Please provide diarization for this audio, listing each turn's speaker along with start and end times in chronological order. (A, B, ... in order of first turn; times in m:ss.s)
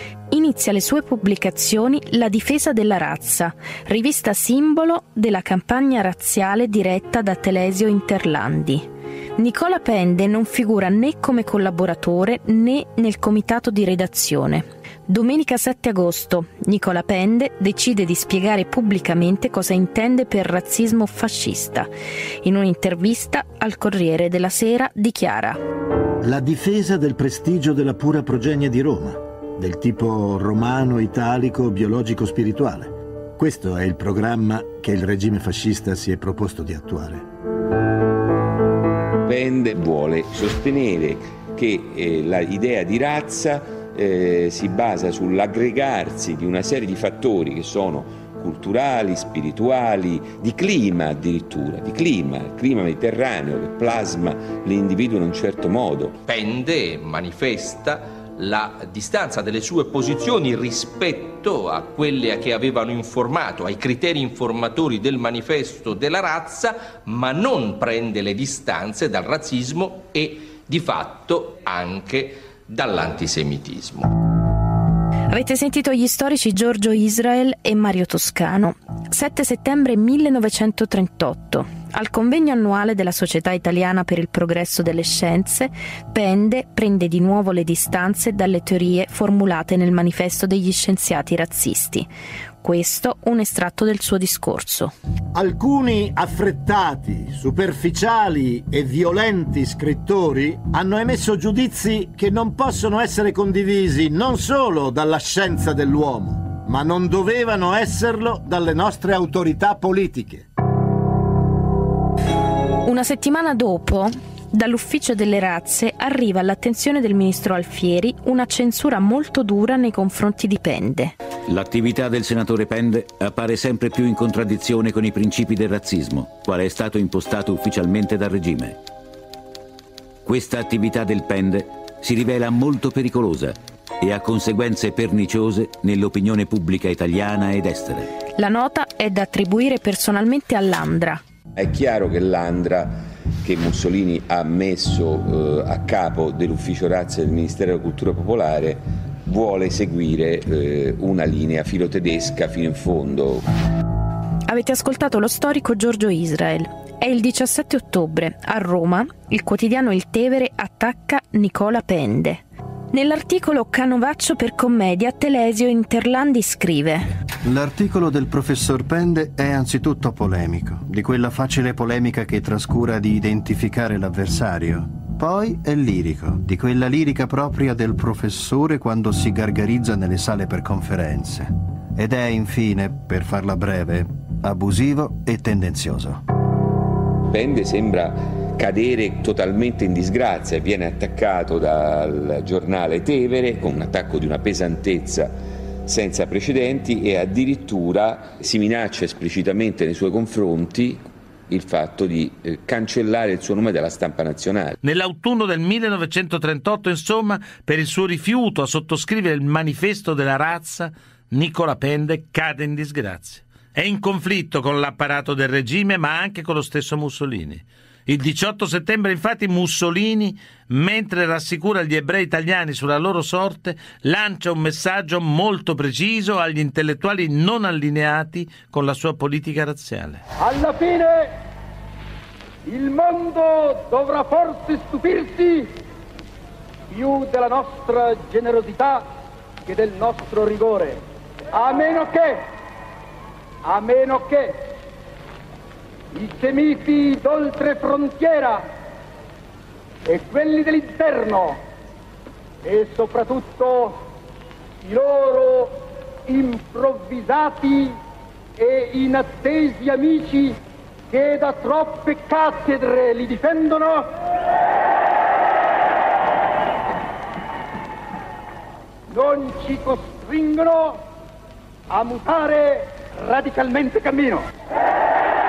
0:00.3-0:08.8 A
0:09.4-0:21.9 A
0:22.4-0:25.6 A
0:26.2-0:37.2 B
0:39.2-0:56.2 C
0:56.2-1:14.1 D
1:15.3-1:32.1 A
1:32.6-1:34.9 A
1:35.3-1:50.4 B
1:52.8-2:01.1 A
2:01.5-2:08.8 E
2:10.2-2:18.1 E
2:18.4-2:21.2 A
2:21.6-2:33.4 C
2:34.5-2:47.0 A
2:47.4-3:06.2 F
3:07.3-3:15.3 C
3:15.8-3:24.8 C
3:24.8-3:50.2 G
3:50.4-3:51.3 H
3:52.6-3:55.7 H
3:56.9-3:59.0 H
3:59.7-4:01.0 H
4:01.5-4:02.4 H
4:03.6-4:04.6 H
4:06.1-4:08.6 H
4:10.1-4:11.6 H
4:12.6-4:14.0 H
4:14.8-4:18.0 H
4:18.6-4:20.6 H
4:21.1-4:24.1 H
4:29.1-4:31.0 H
4:31.9-4:34.4 H